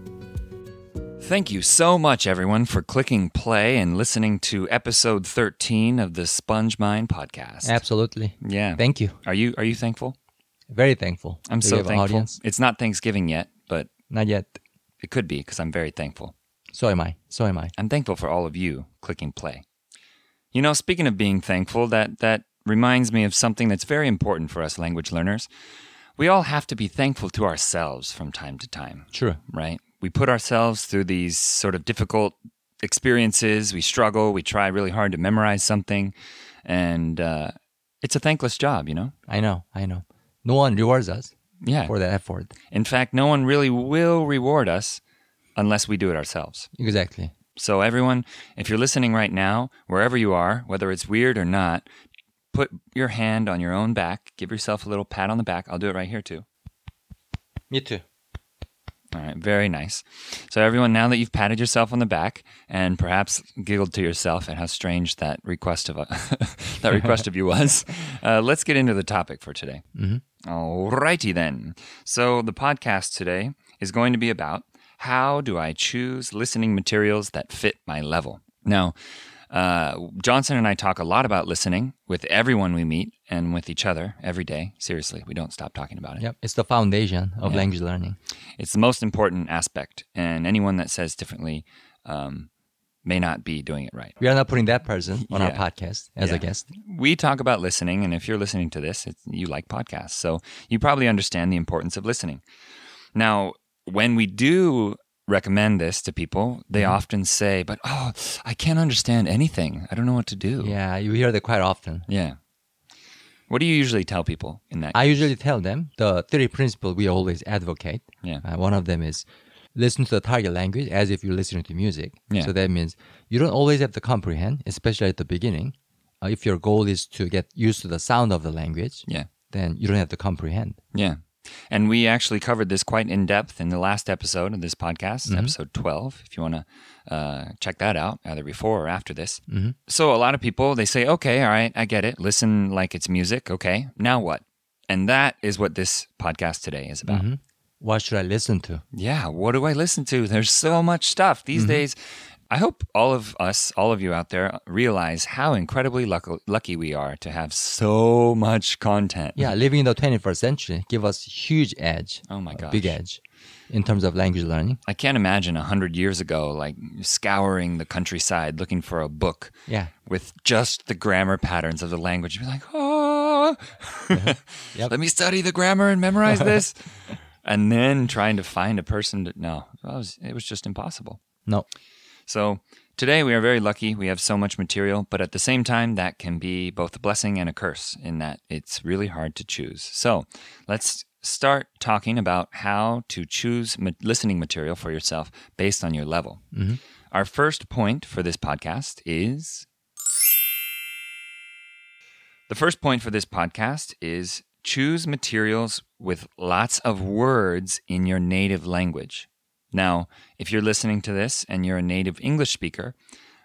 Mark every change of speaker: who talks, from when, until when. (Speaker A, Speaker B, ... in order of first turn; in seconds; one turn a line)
Speaker A: 1.2-7.8
Speaker B: 7.6-9.2
Speaker A: 8.4-10.1
Speaker B: 10.7-12.3
Speaker A: 11.5-13.9
Speaker B: 14.1-14.6
Speaker A: 15.0-16.3
Speaker B: 16.7-17.7
Speaker A: 17.8-19.6
Speaker A: 20.5-25.5
Speaker A: 26.2-36.1
Speaker B: 29.1-29.4
Speaker A: 36.6-39.1
Speaker B: 39.3-41.3
Speaker A: 41.6-41.9
Speaker B: 41.9-42.5
Speaker A: 42.7-45.0
Speaker A: 45.5-46.7
Speaker B: 46.8-47.3
Speaker A: 47.5-51.9
Speaker A: 52.5-56.4
Speaker B: 57.7-58.0
Speaker A: 59.1-69.8
Speaker B: 69.9-70.2
Speaker A: 70.4-78.9
Speaker A: 79.5-86.2
Speaker B: 86.2-88.2
Speaker A: 88.6-92.5
Speaker A: 93.0-94.2
Speaker B: 94.2-96.7
Speaker A: 95.3-95.6
Speaker A: 96.2-102.4
Speaker A: 103.1-110.7
Speaker B: 106.7-107.0
Speaker B: 110.6-112.0
Speaker A: 112.1-112.4
Speaker A: 113.5-115.0
Speaker B: 114.9-130.8
Speaker A: 130.9-147.2
Speaker B: 135.3-135.5
Speaker B: 139.5-139.8
Speaker B: 147.1-148.8
Speaker A: 148.9-152.0
Speaker B: 151.5-151.8
Speaker A: 152.5-159.5
Speaker B: 159.4-164.8
Speaker A: 162.3-163.0
Speaker A: 164.9-169.5
Speaker A: 170.1-181.2
Speaker B: 174.1-174.9
Speaker A: 182.3-196.4
Speaker B: 196.5-196.8
Speaker A: 197.1-199.7
Speaker A: 202.5-212.9